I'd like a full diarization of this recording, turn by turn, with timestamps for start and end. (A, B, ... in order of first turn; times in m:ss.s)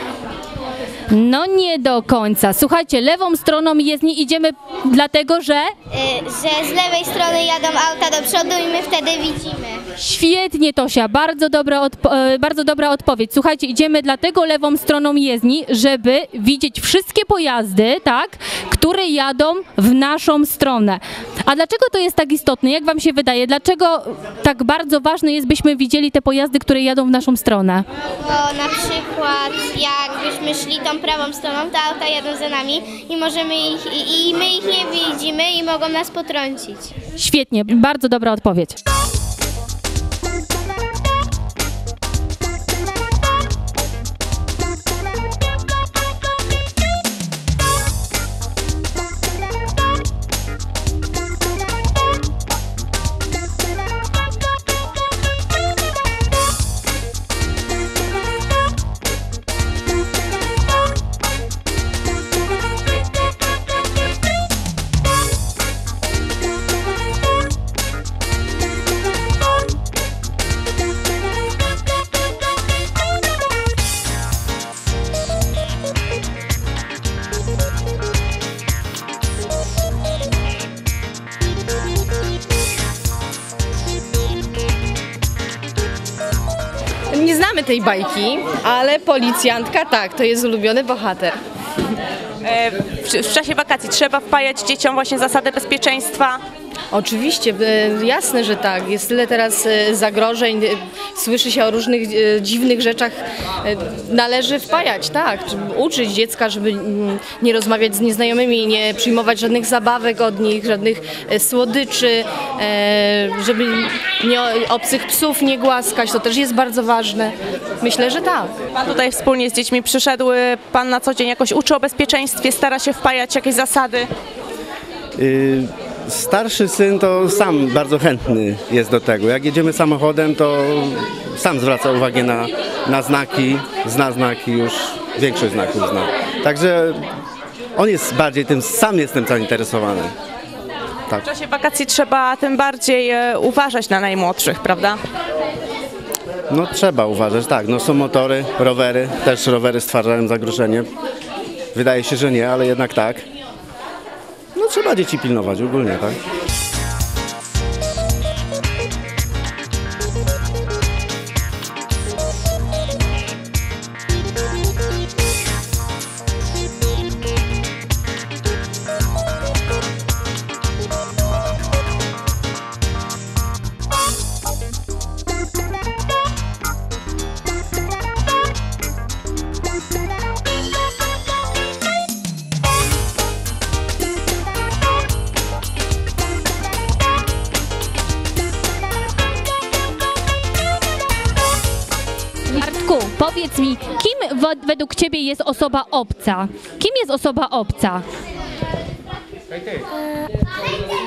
0:01.1-0:05.7 A
0:05.9-0:09.8 B
0:10.0-0:27.8 A
0:28.2-0:36.9 B
0:37.2-0:38.8 A
1:27.1-1:31.4 C
1:32.4-1:36.4 D
1:36.9-1:58.5 C
1:58.8-2:04.1 D
2:05.2-2:17.0 E
2:17.8-2:20.1 E
2:21.2-2:25.0 D
2:26.5-2:30.9 E
2:31.7-2:33.2 E
2:34.5-2:36.2 E
3:12.5-3:18.0 A